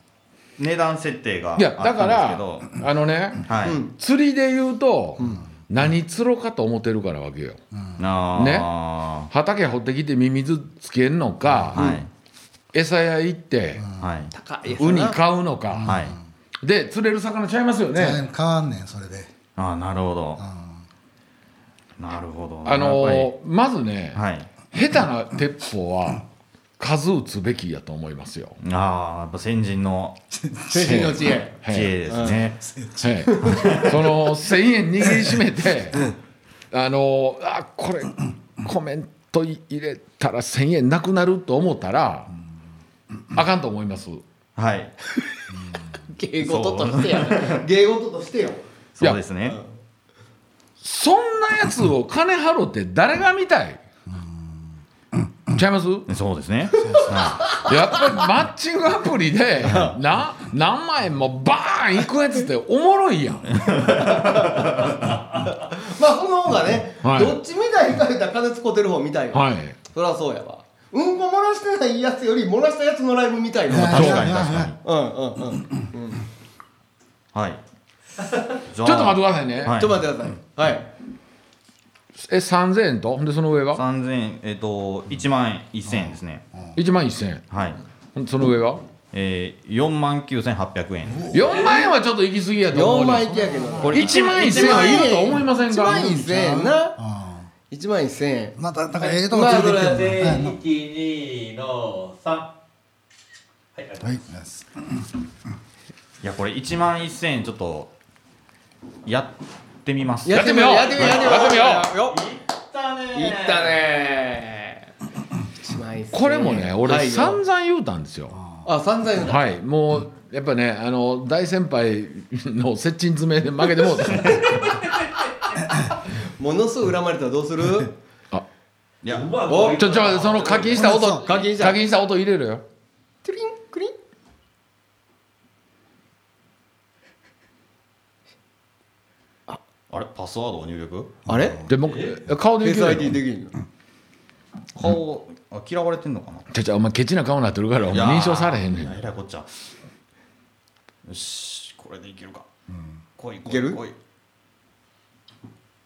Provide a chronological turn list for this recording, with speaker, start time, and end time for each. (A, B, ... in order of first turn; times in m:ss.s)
0:00.6-0:02.7 A
0:01.6-0:03.4 B
0:03.4-0:03.8 A
0:03.6-0:03.9 C
0:03.9-0:07.6 B
0:07.7-0:08.0 D
0:08.0-0:09.3 A
0:08.3-0:08.7 B
0:09.3-0:11.8 B
0:11.7-0:12.1 A
0:12.7-0:13.9 B
0:13.8-0:14.1 D
0:14.0-0:14.3 A
0:14.3-0:15.2 C
0:14.8-0:15.9 B
0:15.7-0:16.2 D
0:15.8-0:16.2 A
0:16.6-0:18.2 B
0:17.9-0:19.3 D
0:19.6-0:20.4 A
0:20.4-0:20.8 D
0:22.0-0:23.3 A
0:22.6-0:26.2 B
0:24.1-0:24.5 A
0:26.8-0:28.6 B
0:28.6-0:30.2 A
0:30.4-0:31.0 D
0:30.7-0:31.6 C
0:30.8-0:31.9 B
0:31.6-0:32.6 A
0:32.1-0:32.4 C
0:32.5-0:33.3 D
0:33.0-0:36.1 B
0:33.3-0:33.8 C
0:33.4-0:34.0 A
0:36.7-0:42.3 B
0:43.3-0:44.2 B
0:44.6-0:44.9 A
0:46.1-0:48.6 C
0:46.4-0:47.6 A
0:49.0-0:49.6 A
0:50.8-0:53.8 B
0:54.1-0:54.4 D
0:55.5-0:56.1 B
0:56.1-0:57.6 A
0:56.8-0:57.3 D
0:56.9-0:57.7 C
0:57.6-1:03.6 B
1:03.5-1:04.9 A
1:03.9-1:04.8 C
1:05.6-1:14.3 C
1:07.0-1:07.4 B
1:09.3-1:09.8 B
1:13.7-1:14.7 D
1:13.7-1:14.8 A
1:13.9-1:14.2 B
1:14.8-1:16.2 C
1:17.3-1:17.6 A
1:18.7-1:20.0 A
1:18.8-1:19.8 B
1:19.8-1:20.9 C
1:22.2-1:23.8 B
1:23.7-1:26.4 A
1:26.7-1:27.4 B
1:27.5-1:27.8 A
1:28.1-1:28.8 B
1:29.1-1:31.3 A
1:31.1-1:31.5 D
1:31.3-1:33.3 B
1:31.5-1:31.9 E
1:32.7-1:37.0 C
1:33.3-1:34.0 D
1:33.8-1:35.1 A
1:33.9-1:36.1 B
1:35.7-1:37.5 D
1:37.7-1:38.6 C
1:38.6-1:40.6 D
1:39.1-1:40.4 C
1:39.4-1:42.5 E
1:43.7-1:44.0 E
1:44.0-1:45.0 D
1:46.2-1:47.9 A
1:49.0-1:51.4 A
1:50.2-1:52.2 C
1:50.3-1:51.9 B
1:51.1-1:51.6 E
1:52.1-1:53.7 E
1:53.1-1:54.8 C
1:55.6-1:57.4 C
1:56.1-1:58.4 B
1:58.4-1:58.6 D
1:58.6-1:59.4 C
1:59.2-2:04.4 B
2:04.6-2:05.1 E
2:06.4-2:07.9 C
2:09.0-2:09.3 A
2:09.1-2:10.9 E
2:09.5-2:09.9 C
2:09.7-2:12.6 B
2:10.7-2:11.2 D
2:10.9-2:11.8 C
2:13.2-2:13.9 C
2:19.9-2:21.2 A
2:21.3-2:21.7 C
2:21.3-2:21.6 D
2:21.7-2:23.2 B
2:21.9-2:22.1 E
2:22.6-2:23.5 C
2:24.7-2:26.5 A
2:26.5-2:29.0 B
2:27.9-2:29.5 A
2:31.0-2:32.5 A
2:33.2-2:34.0 A
2:33.4-2:33.8 C